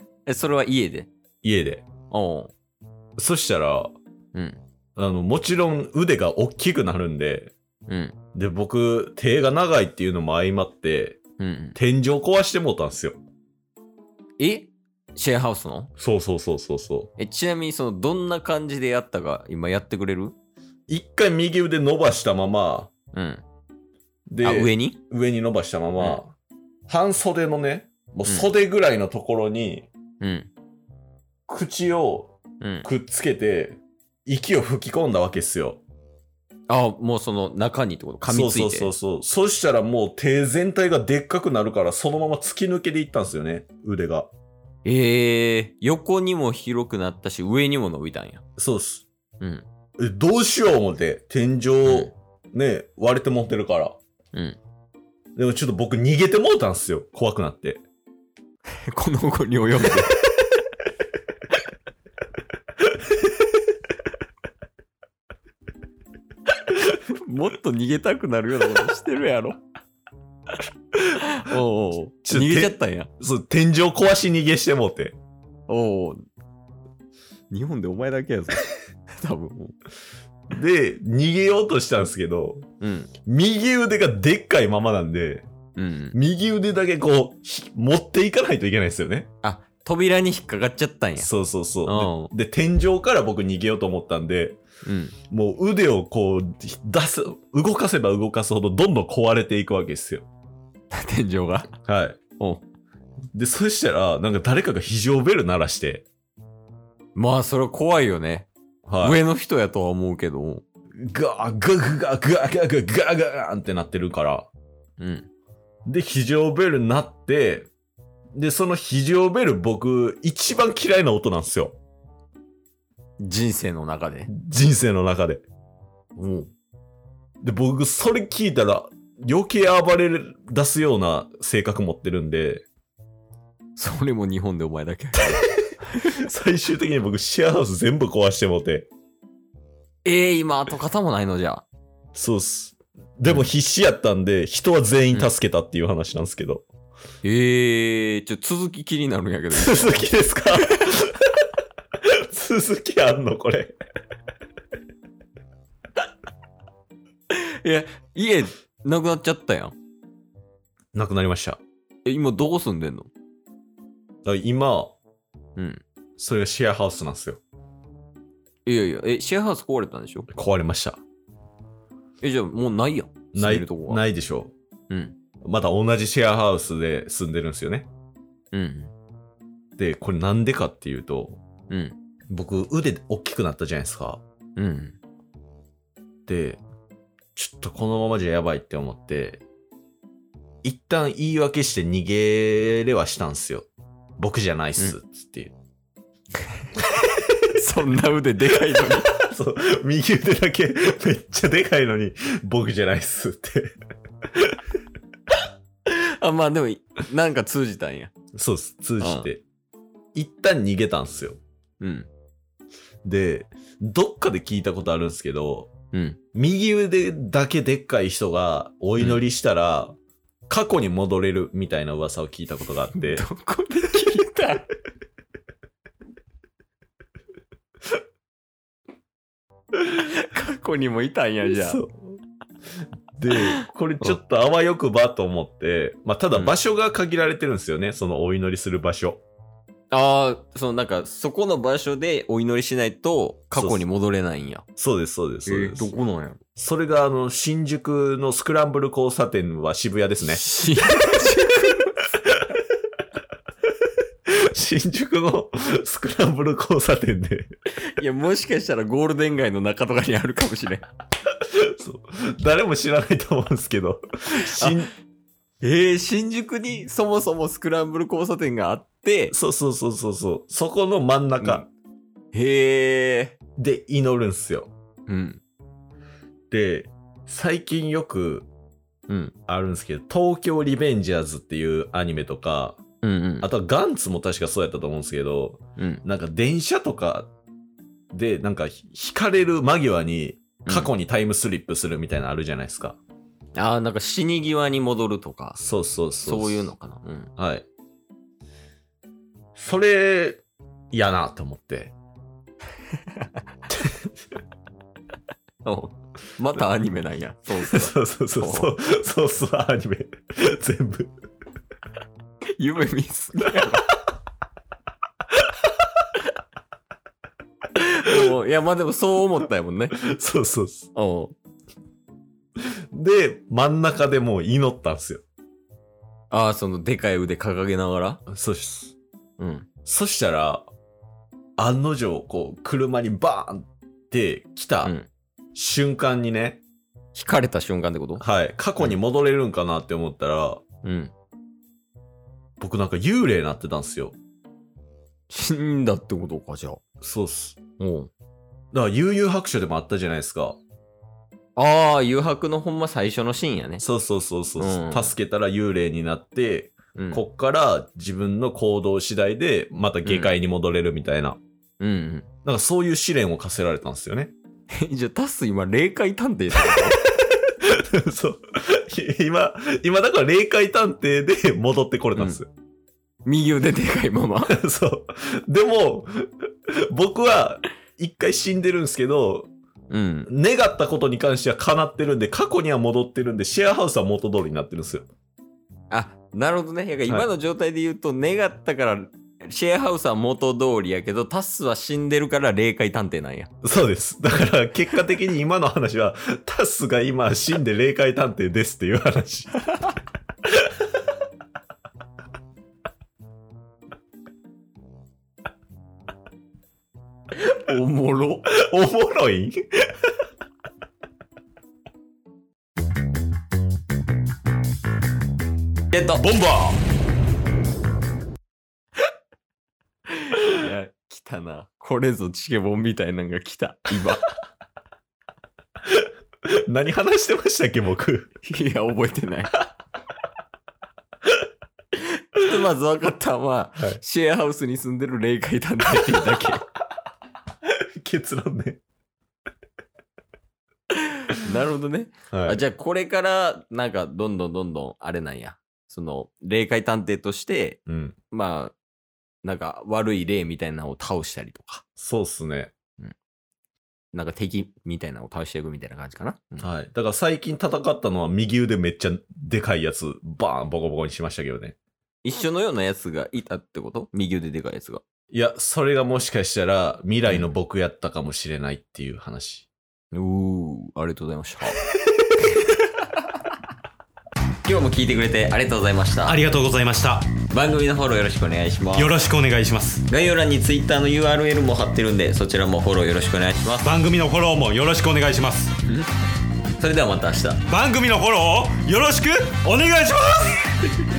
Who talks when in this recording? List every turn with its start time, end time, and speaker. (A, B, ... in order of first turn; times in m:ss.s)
0:00.2-0:01.1 A
0:01.4-0:01.9 B
0:02.1-0:02.5 A
0:03.2-0:03.9 B
0:04.3-0:04.6 A
0:05.0-0:07.5 B
0:07.9-0:08.1 A
0:08.3-0:11.2 B
0:11.4-0:11.8 A
0:11.8-0:13.2 B
0:14.4-0:15.9 A
0:16.0-0:17.1 B
0:17.2-0:20.3 A
0:20.9-0:22.9 B
0:23.1-0:23.4 A
0:24.3-0:26.4 B
0:24.4-0:25.0 A
0:26.9-0:29.9 B
0:30.2-0:30.5 A
0:31.5-0:35.8 B
0:32.6-0:32.8 A
0:36.7-0:38.9 A
0:38.2-0:44.3 B
0:44.8-0:48.4 A
0:48.6-0:49.1 B
0:49.4-0:49.6 A
0:50.0-0:54.0 B
0:51.8-0:52.1 A
0:54.3-0:54.6 A
0:55.4-0:57.8 B
0:58.9-1:00.2 A
1:06.6-1:09.6 A
1:11.1-1:13.1 A
1:12.2-1:15.2 B
1:15.7-1:16.2 A
1:17.5-1:19.7 A
1:20.5-1:22.6 B
1:22.8-1:23.1 A
1:23.2-1:25.5 B
1:25.8-1:26.2 A
1:26.1-1:29.3 B
1:29.4-1:31.3 A
1:31.2-1:34.6 B
1:31.8-1:32.3 A
1:34.8-1:35.2 A
1:35.3-1:40.3 B
1:40.9-1:41.7 A
1:41.8-1:42.2 B
1:43.3-1:46.0 B
1:47.1-1:48.5 A
1:48.8-1:49.2 B
1:49.0-1:50.6 A
1:51.0-1:54.5 B
1:55.0-1:55.3 A
1:55.8-1:57.7 B
1:58.3-2:01.8 B
2:03.2-2:04.3 A
2:04.3-2:05.4 B
2:06.2-2:06.5 A
2:07.4-2:12.6 B
2:13.8-2:16.2 A
2:16.2-2:18.9 B
2:20.0-2:21.6 A
2:22.1-2:26.7 B
2:27.2-2:30.1 A
2:29.5-2:31.2 B
2:30.6-2:30.9 A
2:32.0-2:33.7 B
2:37.3-2:39.7 A
2:40.9-2:41.6 B
2:42.0-2:43.1 A
2:44.2-2:44.9 B
2:45.6-2:45.8 A
2:46.2-2:47.4 B
2:48.6-2:50.3 A
2:50.3-2:51.0 B
2:52.2-2:54.0 A
2:53.3-2:54.5 B
2:54.9-2:55.1 A
2:55.4-2:57.9 B
2:58.5-2:58.9 A
2:59.8-3:01.4 B
3:01.7-3:02.0 A
3:02.3-3:04.2 B
3:04.6-3:05.0 A
3:06.3-3:06.6 B
3:07.4-3:09.4 B
3:10.6-3:15.5 B
3:17.3-3:19.2 A
3:19.1-3:23.7 B
3:25.9-3:28.1 A
3:28.3-3:29.4 B
3:29.0-3:29.3 A
3:30.1-3:31.4 B
3:31.8-3:32.1 A
3:33.0-3:35.7 B
3:35.9-3:36.2 A
3:36.3-3:40.0 B
3:39.0-3:39.2 A
3:40.5-3:43.2 B
3:42.9-3:44.7 A
3:49.7-3:51.8 A
3:51.4-3:52.2 B
3:53.2-3:59.2 B
3:59.9-4:04.6 A
4:03.5-4:03.8 B
4:04.8-4:05.9 B
4:05.4-4:06.4 A
4:06.6-4:10.4 B
4:10.2-4:12.0 A
4:14.3-4:17.5 B
4:18.0-4:20.8 A
4:21.5-4:24.9 B
4:24.5-4:24.8 A
4:25.6-4:29.3 A
4:29.3-4:31.6 B
4:31.4-4:31.7 A
4:32.3-4:33.4 A
4:33.6-4:34.7 B
4:35.1-4:35.4 A
4:36.5-4:38.5 B
4:39.1-4:39.3 A
4:39.5-4:42.8 B
4:43.0-4:43.5 A
4:43.4-4:47.3 B
4:45.8-4:46.0 A
4:48.1-4:53.0 B
4:50.6-4:50.9 A
4:53.6-4:55.6 A
4:55.6-4:56.7 B
4:56.2-4:57.3 A
4:57.4-4:57.6 B
4:59.6-5:01.9 B
5:03.7-5:04.1 B
5:05.6-5:08.7 A
5:07.7-5:11.1 B
5:12.6-5:13.9 A
5:17.7-5:20.0 A
5:20.0-5:20.9 B
5:20.9-5:21.3 A
5:22.9-5:25.2 B
5:26.3-5:28.2 A
5:28.3-5:28.9 B
5:29.4-5:29.7 A
5:29.8-5:30.7 B
5:31.6-5:34.9 B
5:35.5-5:36.6 B
5:37.1-5:38.2 A
5:38.2-5:40.6 B
5:40.8-5:41.1 A
5:42.6-5:44.2 B
5:45.3-5:46.8 A
5:47.0-5:47.6 B
5:47.8-5:48.1 A
5:48.7-5:50.6 B
5:51.6-5:53.8 A
5:53.8-6:01.4 B
5:54.6-5:55.1 A
5:57.0-5:57.2 A
6:00.0-6:00.3 A
6:01.8-6:02.3 A
6:02.4-6:04.3 B
6:04.8-6:07.0 A
6:07.4-6:12.5 B
6:12.1-6:12.4 A
6:13.2-6:14.6 A
6:14.5-6:19.5 B
6:19.9-6:20.3 A
6:20.2-6:25.1 B
6:25.9-6:33.5 A
6:33.6-6:39.5 B
6:47.3-6:48.5 A
6:48.4-6:49.7 B
6:56.2-6:56.5 C
6:56.2-6:56.7 B
7:00.1-7:04.3 A
7:05.9-7:08.3 B
7:08.4-7:09.6 A
7:11.9-7:16.7 A
7:18.0-7:18.8 B
7:21.0-7:27.8 A
7:22.3-7:22.6 B
7:27.9-7:28.2 B
7:28.3-7:28.7 A
7:29.4-7:31.8 A
7:32.0-7:32.7 B
7:34.1-7:36.7 A
7:36.6-7:41.8 B
7:42.2-7:45.0 A
7:45.3-7:49.7 B
7:50.1-7:51.8 A
7:54.6-7:56.4 A
7:56.2-7:57.3 C
7:57.5-7:59.2 A
7:58.9-8:00.0 C
8:00.1-8:03.9 A
8:03.8-8:05.7 C
8:06.8-8:07.6 A
8:07.7-8:10.7 C